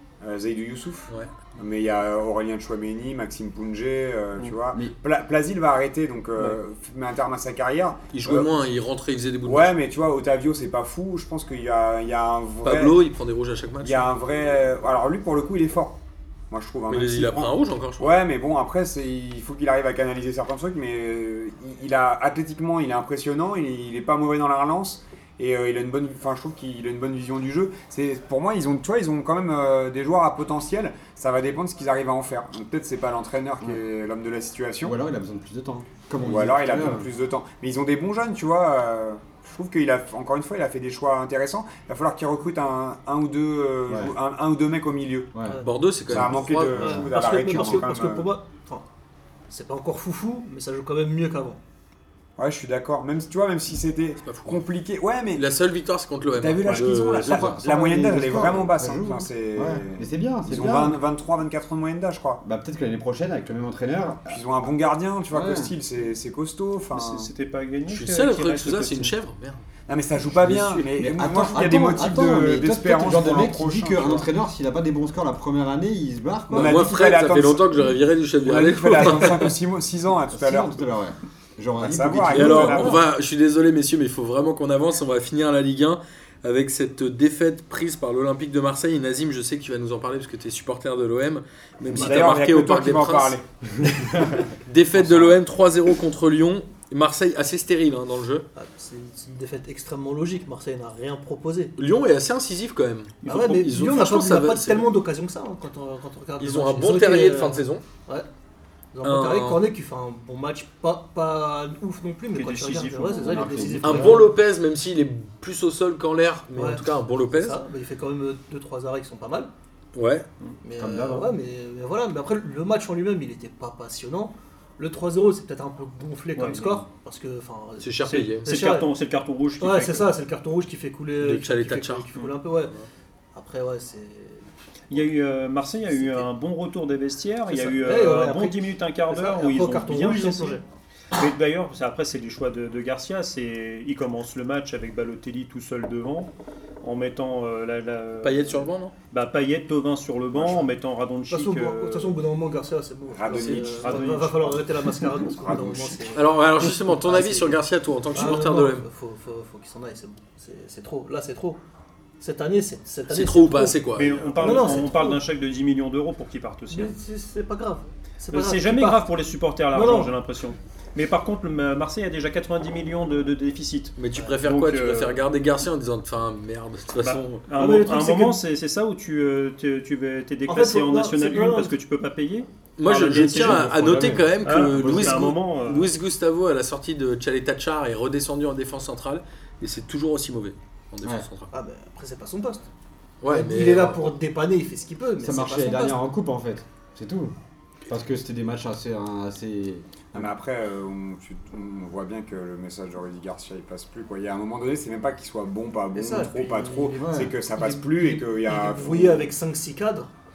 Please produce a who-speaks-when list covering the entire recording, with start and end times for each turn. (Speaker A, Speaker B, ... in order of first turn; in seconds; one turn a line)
Speaker A: 0.2-8.5
Speaker B: 8.1-9.7
Speaker A: 9.4-13.0
Speaker B: 12.6-14.1
Speaker A: 13.8-16.0
Speaker A: 16.5-35.0
Speaker B: 16.9-18.1
Speaker C: 34.8-37.1
Speaker A: 36.2-45.3
Speaker C: 43.9-44.1
Speaker C: 45.3-47.7
Speaker D: 45.5-45.8
Speaker B: 45.6-46.9
Speaker A: 46.1-48.3
Speaker D: 46.6-48.9
Speaker D: 49.5-51.6
Speaker A: 52.4-55.4
Speaker B: 54.2-54.6
Speaker B: 55.3-57.6
Speaker A: 56.4-62.4
Speaker E: 56.6-57.4
Speaker C: 57.2-61.0
Speaker C: 62.4-64.4
Speaker A: 64.3-67.3
Speaker C: 65.3-65.8
Speaker E: 66.9-69.1
Speaker B: 67.9-69.6
Speaker A: 69.9-74.3
Speaker C: 70.2-76.9
Speaker A: 76.5-80.8
Speaker B: 76.5-79.5
Speaker C: 80.3-83.0
Speaker A: 81.8-83.0
Speaker B: 82.3-93.4
Speaker A: 91.9-93.4
Speaker D: 92.0-92.3
Speaker C: 93.8-94.4
Speaker B: 94.5-98.5
Speaker D: 98.5-101.7
Speaker B: 101.8-104.9
Speaker E: 103.2-103.6
Speaker D: 103.3-108.3
Speaker B: 106.4-107.8
Speaker D: 108.9-114.3
Speaker B: 109.0-109.6
Speaker E: 112.3-114.2
Speaker C: 113.2-114.1
Speaker B: 113.8-117.6
Speaker D: 116.5-119.5
Speaker B: 120.0-120.3
Speaker D: 120.6-128.9
Speaker C: 120.8-121.3
Speaker E: 126.4-126.8
Speaker B: 127.8-128.5
Speaker E: 128.1-130.1
Speaker D: 129.6-132.8
Speaker B: 131.2-132.1
Speaker D: 133.3-135.1
Speaker E: 134.9-140.6
Speaker D: 135.9-136.2
Speaker D: 137.5-140.6
Speaker E: 141.1-146.3
Speaker E: 146.8-152.2
Speaker B: 148.2-148.9
Speaker D: 151.3-157.6
Speaker A: 153.1-154.1
Speaker B: 153.3-153.7
Speaker E: 153.8-154.7
Speaker A: 155.4-156.2
Speaker B: 156.1-158.8
Speaker D: 158.1-161.6
Speaker D: 162.2-165.2
Speaker B: 163.1-164.6
Speaker E: 163.9-166.9
Speaker D: 166.7-169.1
Speaker E: 168.3-175.2
Speaker D: 169.7-170.1
Speaker B: 174.0-177.4
Speaker E: 177.0-183.7
Speaker D: 177.6-178.4
Speaker D: 180.5-181.7
Speaker B: 182.8-191.5
Speaker C: 183.2-185.3
Speaker E: 184.4-185.9
Speaker D: 191.5-192.7
Speaker B: 193.2-194.1
Speaker D: 193.3-196.0
Speaker C: 195.2-197.3
Speaker C: 197.9-200.3
Speaker A: 200.1-209.3
Speaker D: 205.9-210.1
Speaker C: 207.0-207.3